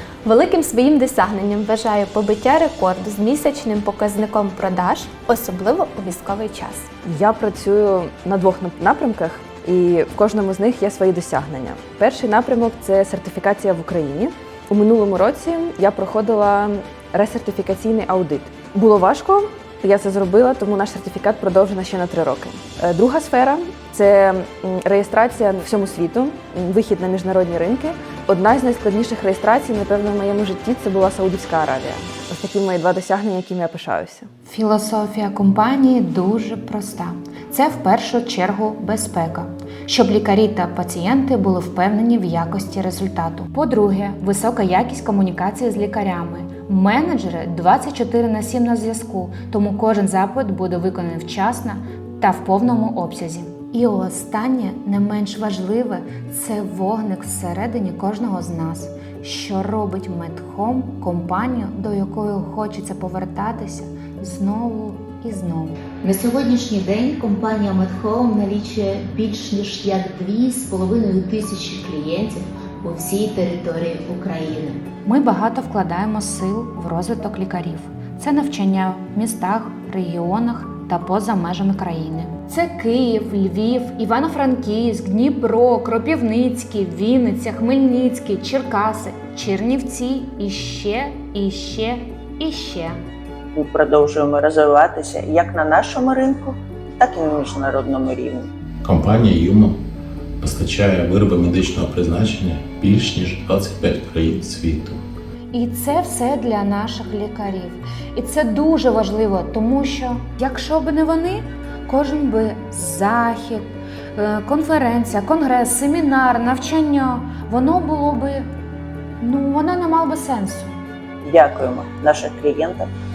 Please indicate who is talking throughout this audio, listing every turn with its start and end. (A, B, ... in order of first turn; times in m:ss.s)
0:00.2-0:06.9 A
0:07.0-0:34.3 B
0:34.5-1:05.8 C
1:06.0-1:14.8 D
1:15.0-1:33.0 C
1:33.6-1:38.5 E
1:38.8-1:39.8 F
1:40.4-1:45.0 F
1:45.5-1:58.4 C
1:59.2-2:00.8 C
2:01.2-2:02.9 E